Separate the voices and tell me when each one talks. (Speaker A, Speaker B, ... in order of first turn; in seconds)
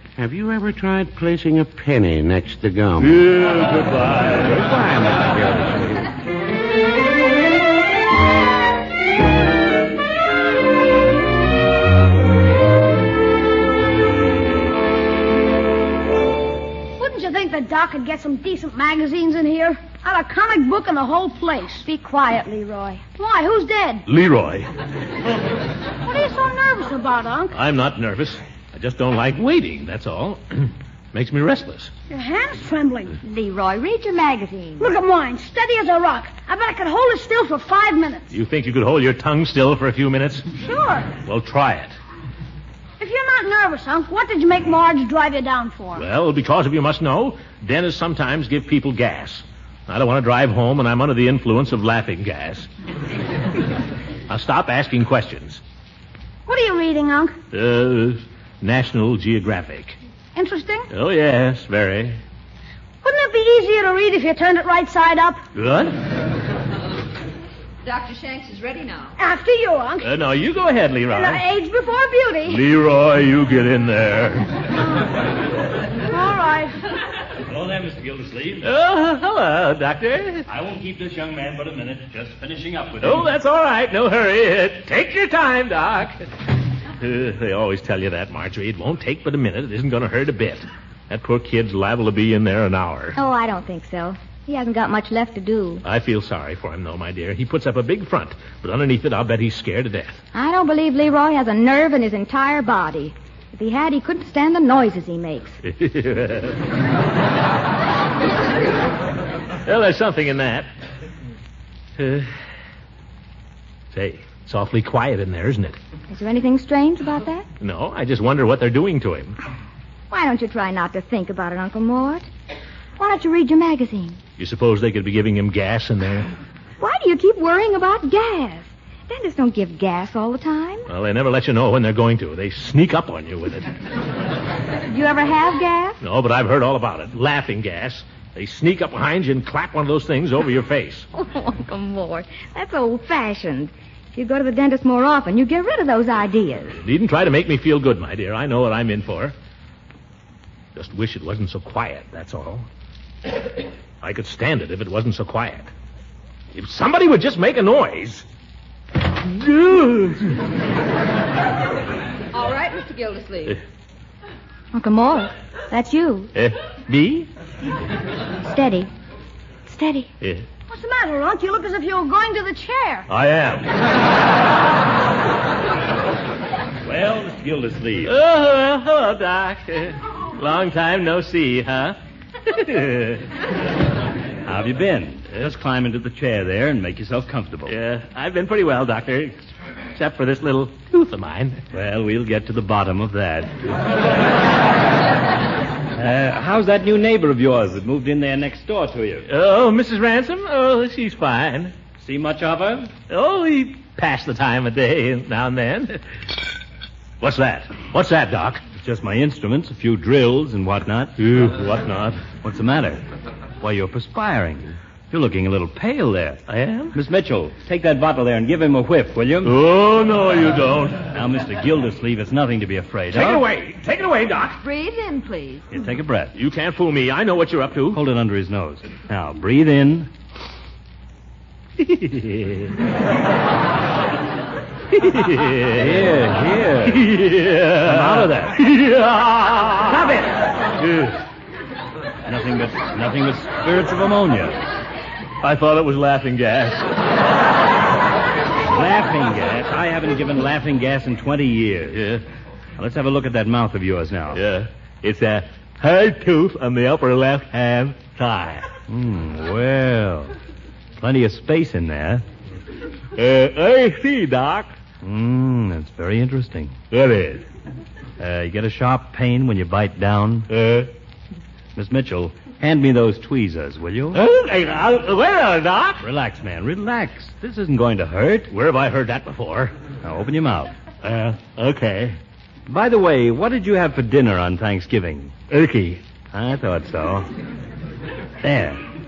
Speaker A: 0.2-3.4, 4.3-6.1
Speaker B: 3.0-4.6, 24.1-24.7, 27.5-31.9, 38.3-40.5, 41.2-42.0, 46.0-52.7, 54.3-55.6, 57.5-60.0, 60.9-62.2, 65.5-66.0, 70.0-71.4, 72.4-74.5, 78.6-80.5, 83.0-86.2, 87.0-93.2, 95.8-100.2, 105.6-106.6, 109.6-110.7, 112.0-112.4, 113.9-115.8, 117.6-119.4, 124.4-126.3, 130.9-133.7, 136.0-141.1, 146.8-149.3, 150.7-152.7, 154.0-155.7, 156.5-158.2, 159.3-160.4, 166.3-167.3, 170.2-170.4, 173.1-173.9, 178.0-183.2, 187.7-189.4, 189.9-191.6, 199.3-201.7, 203.1-206.0, 207.2-208.6, 211.2-212.2, 216.5-217.0, 219.4-221.0, 223.1-224.6, 226.3-228.0, 231.8-232.7, 234.9-241.1, 245.4-246.9, 251.9-252.2, 254.3-258.7, 263.1-264.7, 266.9-267.4, 270.5-270.9, 274.1-276.0, 278.5-279.7, 281.0-282.2, 285.5-286.0
Speaker C: 17.0-21.9, 23.2-24.0, 26.0-27.6, 32.1-33.1, 34.8-38.3, 40.6-41.0, 43.0-46.0, 56.5-57.3, 60.3-60.9, 63.0-65.4, 69.2-70.1, 71.1-72.6, 76.1-76.7, 170.7-173.1
Speaker D: 21.8-23.0, 33.2-34.9, 93.1-95.8, 100.3-105.6, 116.1-117.5, 120.1-122.3, 123.0-124.2, 126.8-130.8, 134.9-136.0, 141.1-146.8, 164.7-166.3, 168.4-168.9, 169.7-170.1
Speaker E: 67.8-69.1, 162.3-163.6, 224.6-225.6
Speaker F: 77.5-78.7, 80.5-83.3, 176.8-178.1, 184.4-187.8, 191.7-193.7, 196.0-199.2, 202.0-202.9, 208.8-211.2, 212.3-213.0, 213.6-216.4, 216.9-219.6, 221.1-223.4, 225.7-226.3, 227.9-230.1, 235.7-237.1, 237.8-238.6, 242.2-244.6, 248.6-252.0, 252.8-254.4, 258.9-260.3, 261.0-262.2, 265.0-266.8, 268.2-270.5, 271.7-274.2, 276.0-278.5, 280.0-280.7, 282.7-285.4, 286.3-287.3, 288.4-288.8